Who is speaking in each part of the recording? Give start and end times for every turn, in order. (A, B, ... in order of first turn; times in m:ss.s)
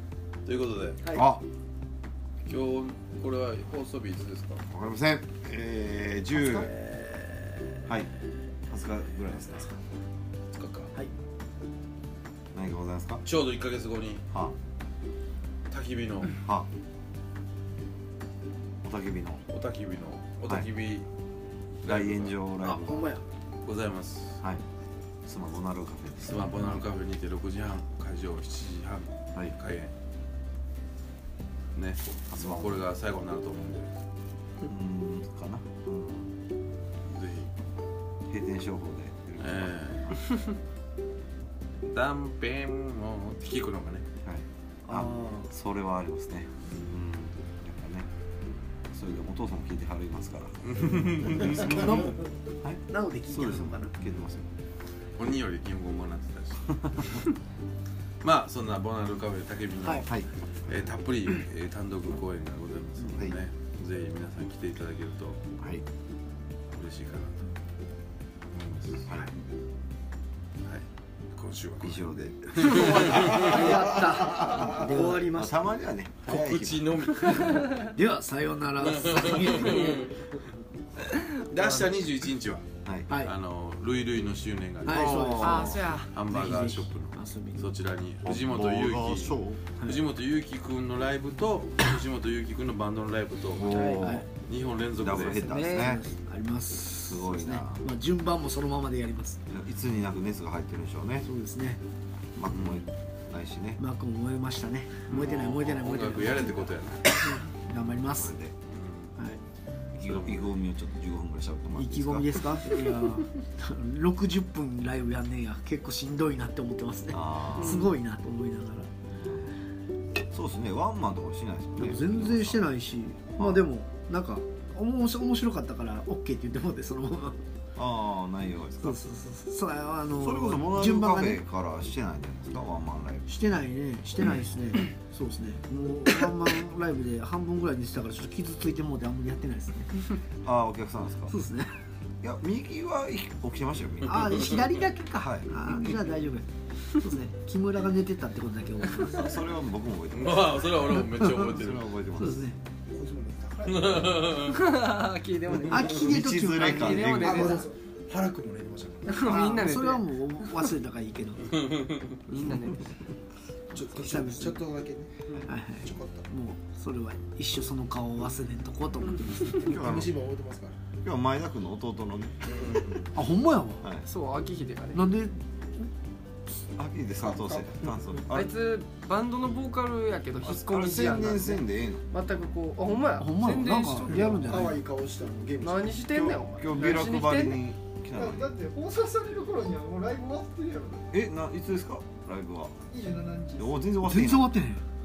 0:00.4-0:01.0 A
0:01.1-0:01.5 B
0:02.5-0:04.6 A
0:04.7-0:06.8 B
0:06.5-0:08.0 C
0:07.8-0:08.1 B
0:08.7-0:09.7 B
0:10.5-0:10.9 A
0:12.5-0:13.3 B
0:13.2-0:14.2 A
0:14.3-0:14.6 B
0:15.7-0:16.4 A
0:16.4-0:16.7 B
0:18.8-0:19.4 B
0:19.5-0:21.1 A
0:21.8-0:22.3 A
0:21.8-0:23.1 B
0:22.6-0:23.2 C
0:23.6-0:24.4 A
0:25.3-0:26.5 B
0:26.2-0:29.9 A
0:31.8-0:33.9 A
0:32.3-0:32.9 B
0:34.6-0:36.4 B
0:37.1-0:37.5 A
0:38.3-0:40.3 B
0:39.4-0:40.3 A
0:41.8-0:44.1 A
0:44.2-0:48.1 B
0:44.9-0:45.5 C
0:48.9-0:51.5 B
0:50.7-0:52.1 A
0:51.4-0:52.3 C
0:52.6-0:54.5 B
0:52.9-0:53.9 C
0:55.2-0:57.2 A
0:58.2-1:05.6 A
1:00.0-1:00.3 B
1:03.0-1:03.4 B
1:05.6-1:05.8 B
1:06.7-1:07.4 A
1:08.6-1:09.4 B
1:08.6-1:09.3 A
1:10.6-1:13.7 A
1:11.8-1:13.6 B
1:12.7-1:15.6 C
1:14.4-1:17.0 B
1:16.2-1:17.9 A
1:17.4-1:20.1 C
1:18.8-1:20.2 A
1:21.4-1:22.7 A
1:22.8-1:23.2 B
1:23.2-1:33.6 A
1:24.8-1:27.7 C
1:25.0-1:25.9 B
1:25.4-1:26.1 D
1:28.2-1:29.6 B
1:33.5-1:34.3 B
1:33.7-1:34.0 D
1:33.7-1:34.3 C
1:34.3-1:35.5 A
1:34.9-1:36.0 B
1:35.2-1:39.4 C
1:35.4-1:36.0 D
1:37.1-1:37.8 B
1:39.5-1:41.3 B
1:41.2-1:41.8 C
1:42.4-1:43.8 B
1:42.5-1:42.9 A
1:43.8-1:48.3 C
1:45.1-1:47.1 A
1:47.7-1:48.6 B
1:48.7-1:49.1 A
1:50.0-1:50.6 A
1:50.0-1:52.4 B
1:51.8-1:58.9 C
1:57.1-1:57.8 B
1:59.1-1:59.6 B
2:00.3-2:02.8 B
2:01.8-2:07.4 C
2:03.4-2:03.7 B
2:07.8-2:09.0 B
2:08.8-2:11.4 C
2:10.2-2:13.3 B
2:13.3-2:19.9 C
2:20.4-2:21.4 B
2:21.3-2:21.7 C
2:22.2-2:24.2 B
2:24.1-2:29.4 C
2:25.0-2:26.0 B
2:29.1-2:30.6 B
2:30.1-2:31.9 A
2:30.9-2:31.5 C
2:31.4-2:32.4 B
2:32.2-2:32.6 C
2:32.9-2:34.3 E
2:33.6-2:34.6 A
2:34.4-2:37.7 D
2:35.7-2:37.7 C
2:35.7-2:36.1 E
2:36.2-2:37.1 B
2:37.1-2:39.4 E
2:39.1-2:40.1 D
2:39.2-2:41.8 C
2:42.3-2:42.7 C
2:42.3-2:42.8 D
2:43.7-2:45.3 E
2:43.8-2:44.6 C
2:45.4-2:49.8 C
2:45.8-2:46.3 E
2:49.5-2:50.9 E
2:49.7-2:50.2 B
2:51.0-2:52.8 B
2:52.5-2:53.1 A
2:53.1-2:53.8 C
2:53.8-2:54.1 B
2:54.0-2:55.0 D
2:54.9-2:55.9 C
2:56.8-2:58.6 B
2:57.2-2:57.7 E
2:58.3-3:04.5 D
3:00.4-3:02.0 B
3:03.2-3:04.8 C
3:04.1-3:06.1 E
3:05.6-3:07.6 D
3:06.1-3:08.6 B
3:08.2-3:11.0 F
3:11.1-3:12.8 B
3:12.9-3:13.8 F
3:13.6-3:14.6 B
3:14.0-3:14.8 C